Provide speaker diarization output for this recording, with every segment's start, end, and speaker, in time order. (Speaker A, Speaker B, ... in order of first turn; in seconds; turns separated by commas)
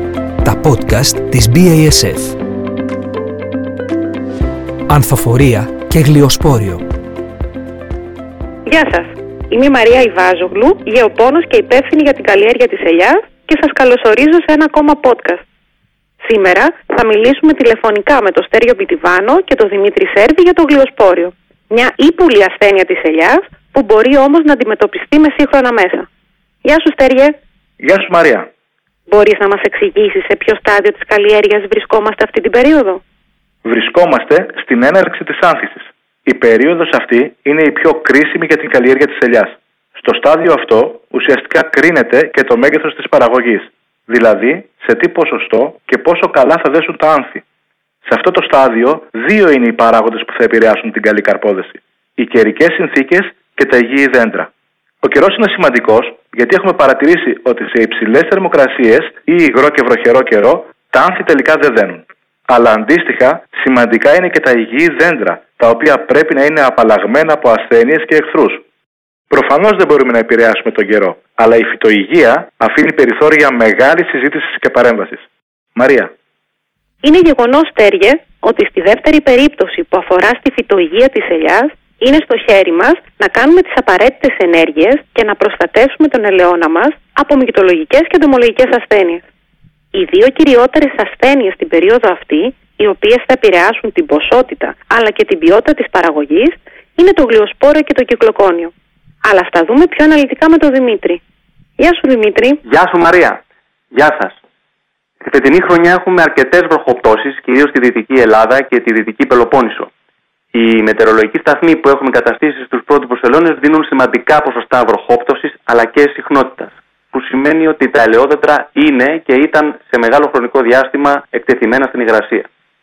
Speaker A: 0.4-2.4, Speaker A: 4.9-6.8, Speaker B: 8.7-15.4, Speaker B: 16.2-26.1, Speaker B: 26.6-27.4, Speaker C: 27.8-28.5, Speaker B: 29.1-33.0, Speaker C: 33.6-47.4, Speaker C: 48.0-54.5, Speaker C: 55.0-68.6, Speaker C: 69.3-76.1, Speaker B: 77.0-89.2, Speaker B: 89.9-98.7, Speaker B: 99.2-101.2, Speaker B: 101.8-102.6, Speaker D: 102.7-103.4, Speaker D: 103.9-104.4, Speaker D: 105.2-109.9, Speaker D: 110.5-122.5